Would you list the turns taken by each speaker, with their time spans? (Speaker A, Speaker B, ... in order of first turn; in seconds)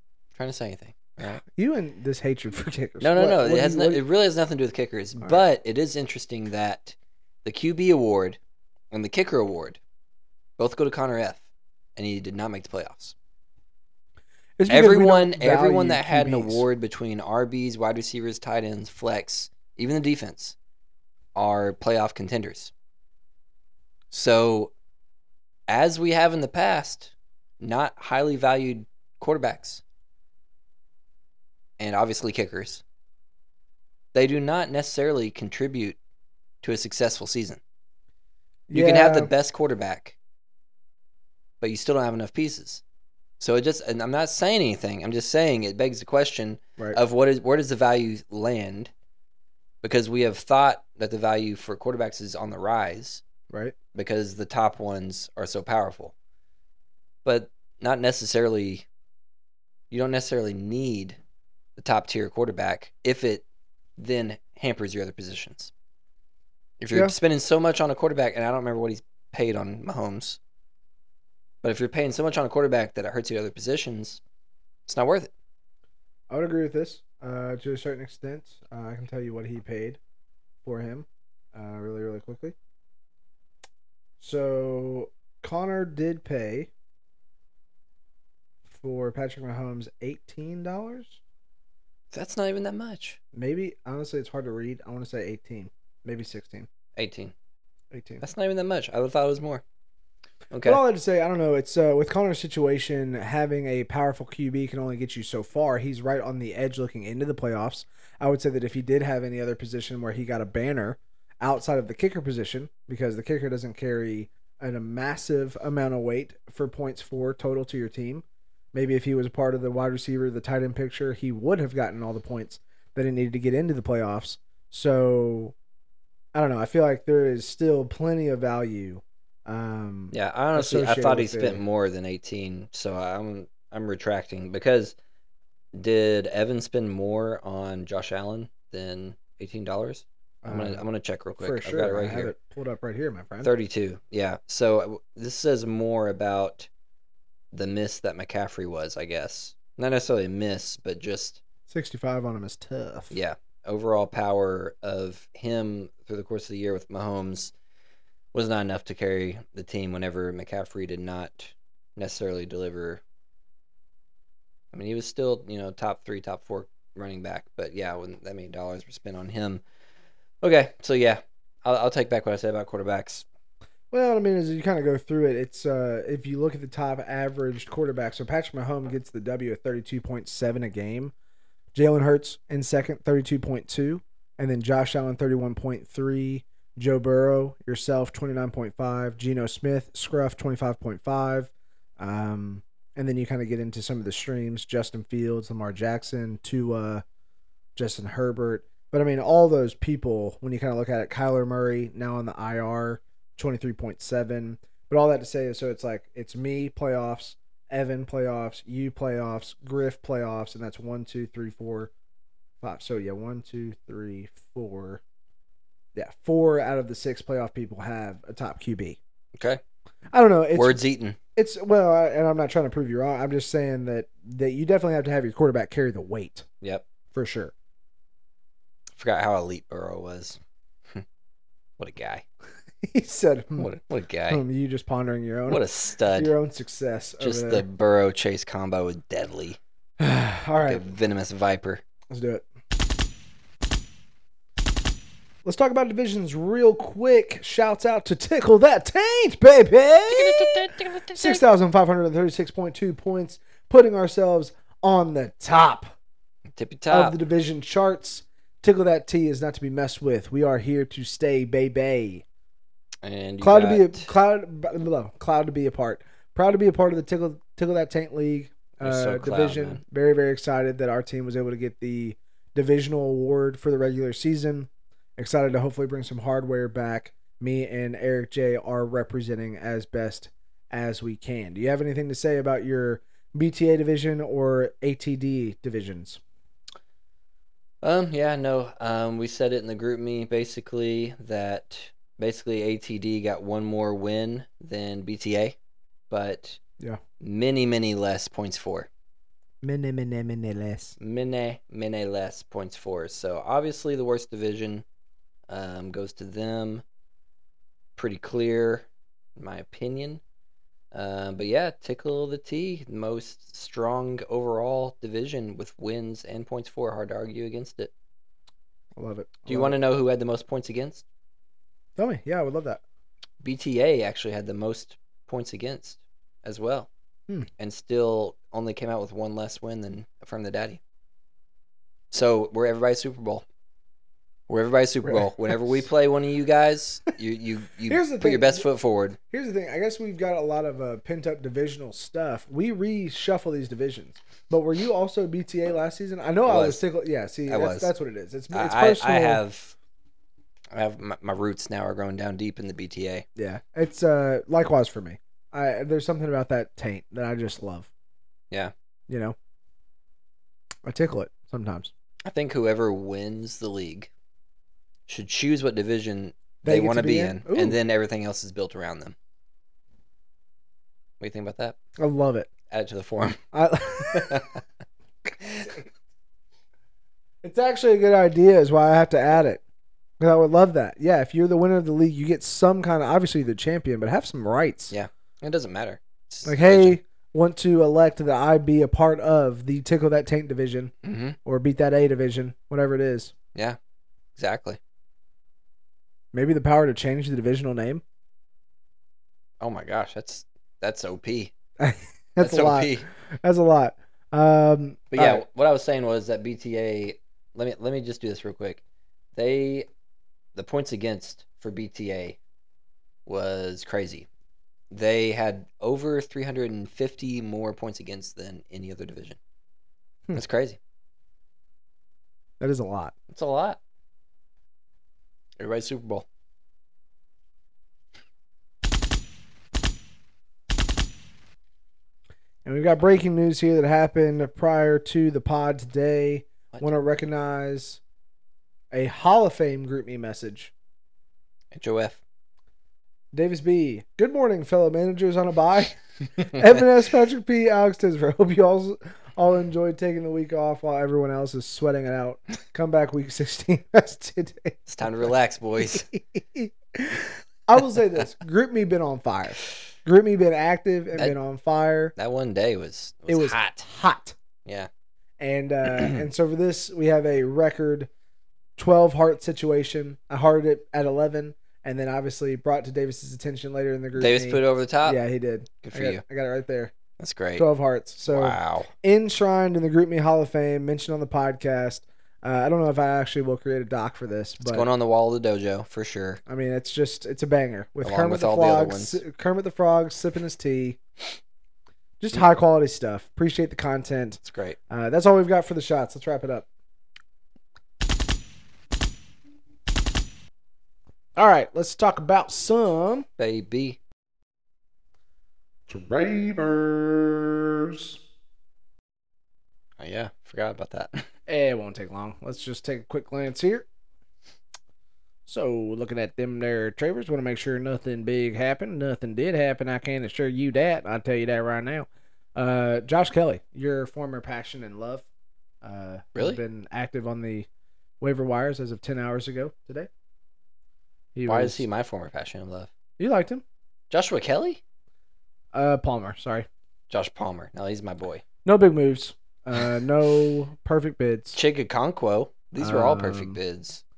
Speaker A: 0.3-1.4, 3.0-8.4, 8.9-9.8, 10.6-13.2, 14.7-20.6, 21.4-22.7, 24.1-24.7, 25.7-29.8, 31.8-32.8, 34.1-36.0, 36.6-37.6, 38.7-40.2, 41.6-42.8, 43.4-48.9, 49.8-53.2, 53.9-56.1, 57.2-58.9, 59.9-61.2, 61.8-63.4, 64.0-65.7, 66.8-70.4, 71.6-74.2, 74.9-75.3, 92.1-93.2, 97.0-97.3, 98.2-99.6, 100.5-100.8, 130.1-135.0, 135.7-142.3, 143.4-146.7, 147.5-151.4, 153.1-157.5, 158.3-163.0, 164.7-169.6, 170.4-173.2, 219.3-219.6, 220.5-221.2, 226.6-226.9, 229.0-230.4, 231.8-232.2, 233.6-234.4, 235.5-236.3, 237.2-239.6, 240.7-241.8, 250.1-251.4, 256.5-257.2, 263.0-264.1, 268.8-269.8, 287.8-295.6, 296.1-296.6, 297.2-298.9, 301.0-304.8, 305.5-306.8, 308.0-310.2, 310.9-317.9, 319.5-321.1, 323.4-326.9, 327.6-330.8, 332.1-333.4, 334.5-339.2, 346.5-346.8, 347.5-347.9, 348.5-349.8, 350.7-353.2, 362.2-364.1, 365.1-369.2, 371.2-371.8, 372.7-373.4, 374.1-374.6, 384.9-387.0, 391.0-391.4, 394.4-394.8, 399.6-401.5, 402.4-403.1, 405.1-408.8, 409.4-409.9, 410.6-412.4, 413.3-414.3, 414.9-419.4, 420.3-420.8, 423.3-423.8, 425.6-426.3, 441.7-442.2, 454.9-456.1, 462.2-463.9, 474.2-475.2, 475.8-476.2, 477.2-477.7, 478.3-478.9, 484.6-486.4, 488.0-489.2, 494.4-494.8, 503.4-504.0, 510.0-511.3, 526.4-526.6, 531.5-532.9, 534.1-534.8, 537.1-538.4, 541.5-544.0
Speaker B: 1.4-4.0, 14.6-16.7, 38.7-39.3, 53.5-53.8, 76.3-80.0, 80.6-82.5, 84.2-86.7, 88.7-91.2, 93.3-96.7, 97.9-98.2, 100.6-125.5, 126.3-131.6, 140.4-140.8, 141.4-143.5, 151.7-153.2, 173.9-181.1, 181.7-197.0, 197.8-211.9, 212.6-215.0, 215.9-219.0, 220.1-226.4, 227.1-227.5, 232.8-233.7, 234.3-237.7, 240.0-240.8, 242.1-242.4, 245.4-255.9, 256.9-262.2, 263.4-286.2, 299.6-301.0, 319.0-319.8, 322.0-322.8, 335.1-335.8, 337.9-338.7, 339.3-349.4, 353.4-357.9, 359.1-359.4, 360.9-361.9, 366.6-367.8, 372.0-372.5, 373.5-374.5, 377.4-379.6, 380.2-384.9, 386.4-390.9, 391.4-393.3, 396.3-398.0, 401.8-405.4, 422.6-423.1, 432.6-438.0, 438.9-440.7, 443.3-454.9, 455.9-462.1, 463.3-464.4, 465.4-468.1, 468.8-476.9, 477.6-484.9, 486.5-491.0, 492.2-496.7, 501.4-503.3, 511.5-513.9, 515.5-525.3, 525.8-527.7, 528.2-530.1, 531.4-531.8, 533.2-533.6, 535.7-536.7, 538.6-541.6, 542.8-543.6
Speaker C: 505.9-508.2